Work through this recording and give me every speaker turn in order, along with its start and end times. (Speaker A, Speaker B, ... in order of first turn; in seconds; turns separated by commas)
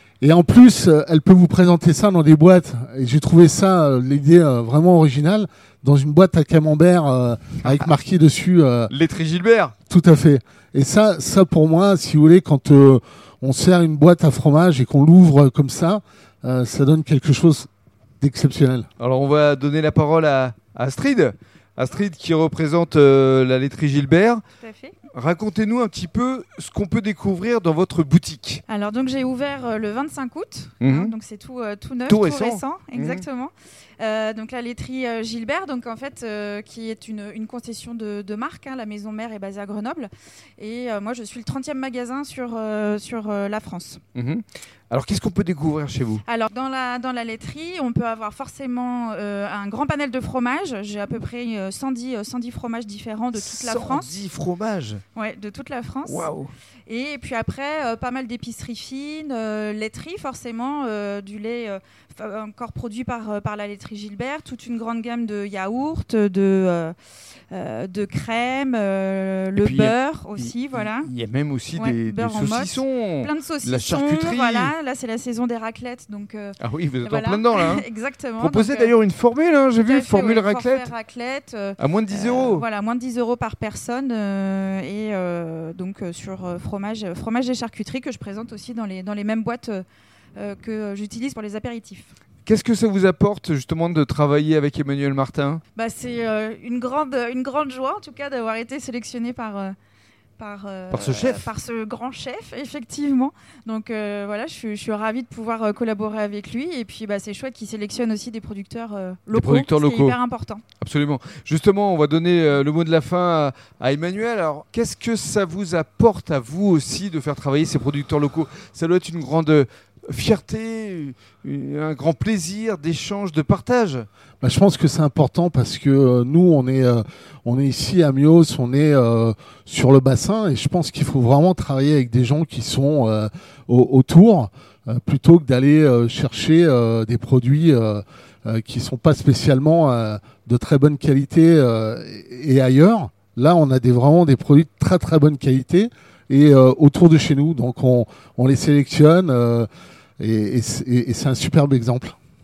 Speaker A: 0.2-8.9, Speaker B: 8.9-9.7, Speaker A: 9.9-17.7, Speaker A: 18.2-18.9, Speaker B: 19.0-24.4, Speaker C: 24.6-24.9, Speaker B: 25.1-28.6, Speaker C: 28.7-44.0, Speaker B: 30.8-31.1, Speaker B: 32.1-33.2, Speaker B: 44.1-46.2, Speaker C: 46.2-54.2, Speaker B: 53.3-55.0, Speaker C: 55.1-56.3, Speaker B: 56.0-56.5, Speaker C: 56.9-67.0, Speaker C: 67.5-71.1, Speaker B: 69.6-74.7, Speaker C: 71.8-79.0, Speaker B: 76.6-77.8, Speaker B: 78.4-80.9, Speaker C: 79.8-89.8, Speaker B: 81.8-82.7, Speaker C: 90.4-92.1, Speaker B: 92.5-95.6, Speaker C: 95.8-99.8, Speaker C: 100.4-110.6, Speaker B: 100.9-101.5, Speaker B: 109.3-110.2, Speaker B: 110.8-124.1, Speaker A: 124.4-149.7, Speaker A: 150.2-152.2